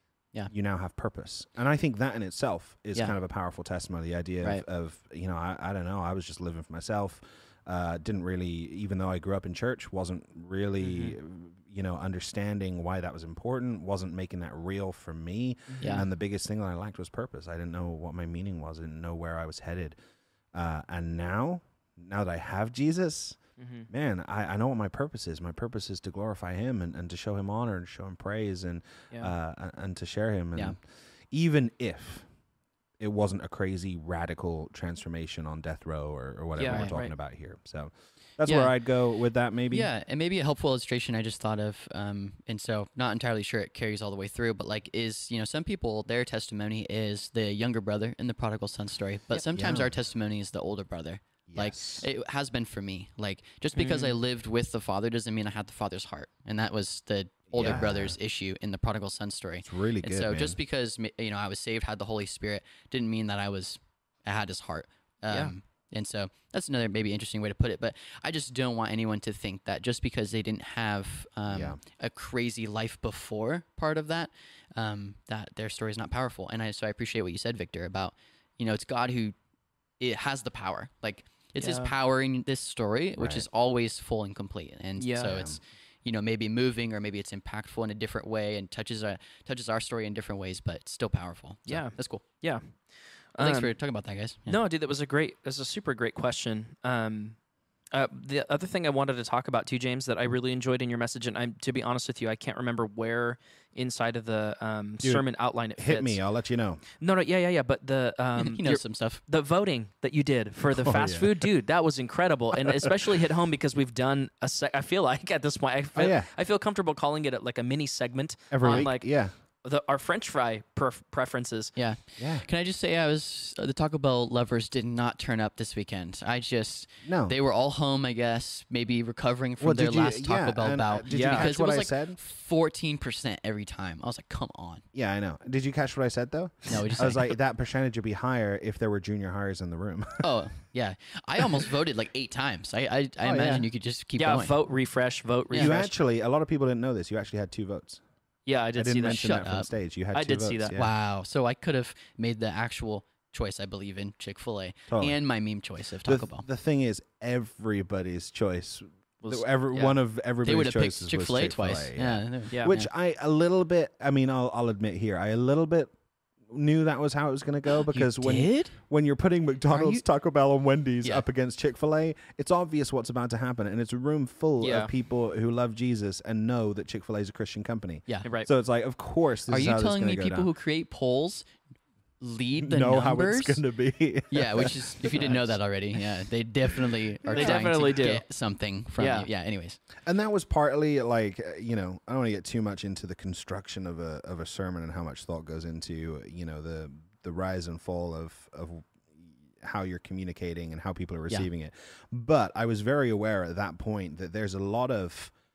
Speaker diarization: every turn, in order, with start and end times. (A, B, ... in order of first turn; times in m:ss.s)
0:00.5-0:20.0 A
0:10.8-0:11.2 B
0:15.7-0:16.0 B
0:20.5-0:32.2 A
0:23.6-0:23.9 B
0:33.0-0:39.9 A
0:36.6-0:37.1 B
0:36.6-0:37.0 C
0:38.4-0:38.7 C
0:39.7-1:19.3 C
0:49.5-0:49.9 A
0:51.5-0:52.1 A
0:53.7-0:54.2 B
0:57.5-0:58.2 A
0:59.6-1:00.6 A
1:11.5-1:11.8 A
1:20.0-1:32.2 C
1:21.6-1:21.9 B
1:23.2-1:23.4 A
1:25.0-1:25.4 B
1:25.2-1:25.6 A
1:31.7-1:32.6 B
1:33.3-1:33.7 B
1:33.4-1:34.6 C
1:34.5-1:37.4 B
1:37.9-1:46.2 B
1:45.8-1:46.8 A
1:47.0-1:59.1 B
1:48.4-1:49.2 C
1:50.7-1:51.5 A
1:52.7-1:52.9 A
1:55.9-1:56.3 A
1:58.5-1:59.3 A
1:59.6-2:01.7 B
2:01.8-2:14.8 C
2:02.2-2:02.5 A
2:07.0-2:07.3 A
2:09.6-2:12.2 A
2:11.1-2:11.5 B
2:14.9-2:20.3 A
2:16.7-2:17.3 C
2:20.2-2:24.6 C
2:23.2-2:23.7 A
2:24.2-2:25.9 B
2:25.5-2:25.8 C
2:25.5-2:28.0 A
2:28.4-2:29.4 B
2:28.8-2:30.9 A
2:29.2-2:29.7 C
2:30.1-2:30.8 B
2:30.7-2:36.4 C
2:34.9-2:35.2 A
2:36.0-2:45.9 A
2:39.2-2:40.0 B
2:40.4-2:42.9 C
2:46.5-3:00.5 A
2:47.9-2:48.8 C
2:49.7-2:50.0 C
2:54.6-2:54.9 B
2:58.2-2:58.5 B
2:59.5-3:01.5 C
3:02.2-3:03.6 C
3:02.6-3:05.5 A
3:04.3-3:09.8 C
3:07.2-3:07.7 A
3:07.3-3:08.2 B
3:09.0-3:09.3 B
3:10.0-3:25.3 A